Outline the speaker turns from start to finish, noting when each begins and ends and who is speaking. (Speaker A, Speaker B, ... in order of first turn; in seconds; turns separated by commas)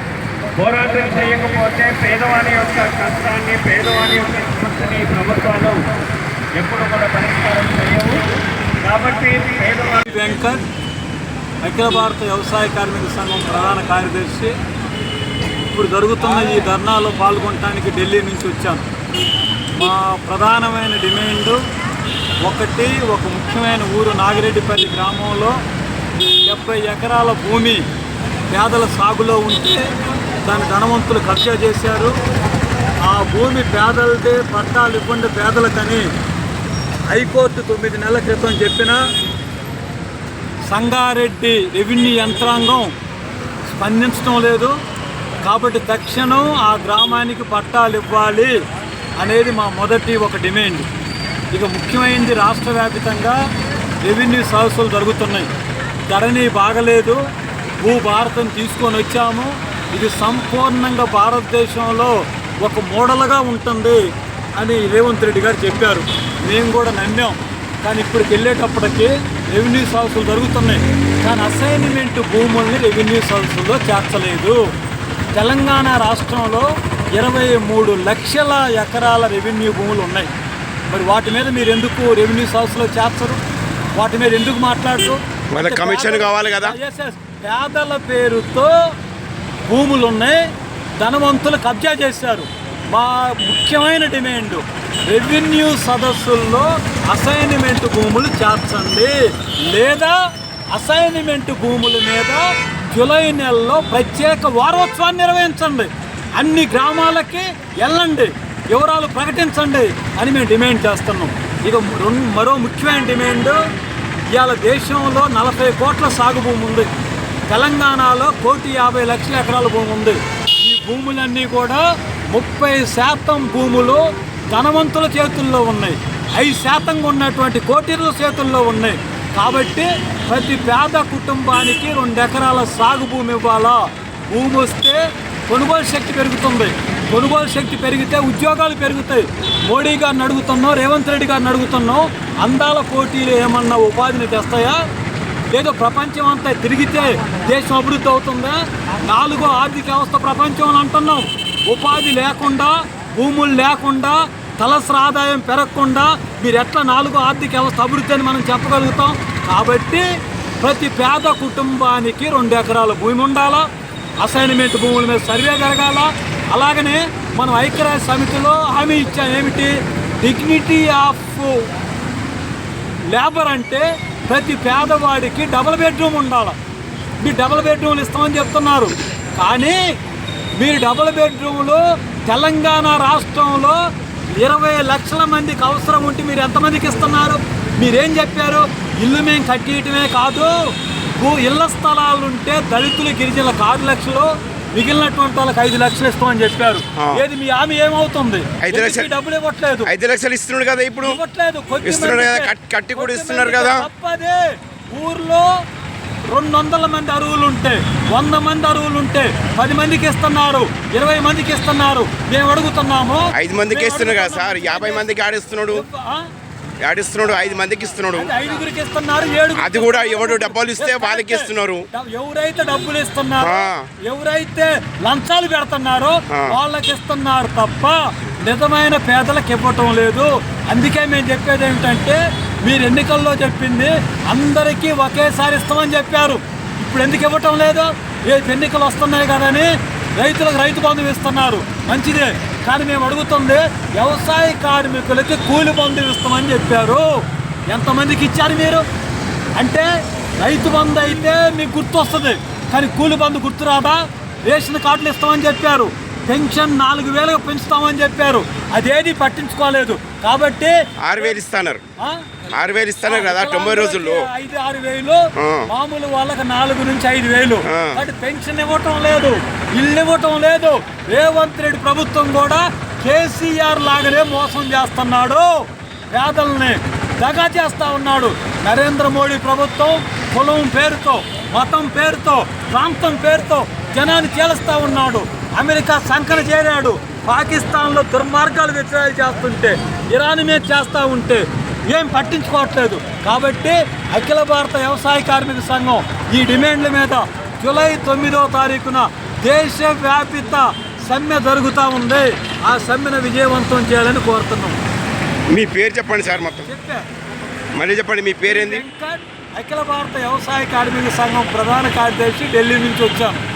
Speaker A: 0.5-5.9, Speaker A: 6.5-8.3, Speaker A: 8.8-10.0, Speaker B: 9.9-10.6, Speaker B: 11.6-14.6, Speaker B: 15.7-18.8, Speaker B: 19.7-21.6, Speaker B: 22.4-25.6, Speaker B: 26.4-27.8, Speaker B: 28.5-29.9, Speaker B: 30.4-32.2, Speaker B: 33.0-36.1, Speaker B: 37.1-39.0, Speaker B: 40.7-42.9, Speaker B: 43.7-44.7, Speaker B: 45.4-48.6, Speaker B: 49.2-50.9, Speaker B: 51.5-53.4, Speaker B: 54.0-55.5, Speaker B: 56.1-57.2, Speaker B: 57.8-74.7, Speaker B: 75.3-80.3, Speaker B: 80.9-83.4, Speaker B: 84.0-88.7, Speaker C: 85.5-86.8, Speaker B: 89.6-113.6, Speaker B: 114.3-116.9, Speaker B: 117.5-144.8, Speaker B: 145.5-160.0, Speaker B: 160.6-171.7, Speaker B: 173.1-176.6, Speaker B: 177.2-179.8, Speaker B: 180.6-183.8, Speaker B: 184.3-199.9, Speaker C: 196.9-197.2, Speaker C: 198.6-199.1, Speaker C: 199.8-201.2, Speaker B: 201.0-205.5, Speaker C: 201.8-203.9, Speaker B: 206.2-215.0, Speaker C: 213.3-215.8, Speaker B: 215.7-216.3, Speaker C: 216.8-218.3, Speaker B: 218.2-248.8, Speaker C: 219.6-221.9, Speaker C: 223.4-223.9, Speaker C: 226.3-226.6, Speaker B: 249.6-261.3, Speaker C: 261.0-261.8, Speaker B: 262.0-262.3, Speaker C: 262.5-264.3, Speaker B: 263.0-304.8, Speaker C: 265.4-265.7, Speaker C: 267.7-268.0, Speaker C: 305.5-306.7, Speaker B: 306.6-307.1, Speaker C: 307.7-308.8, Speaker B: 308.4-313.4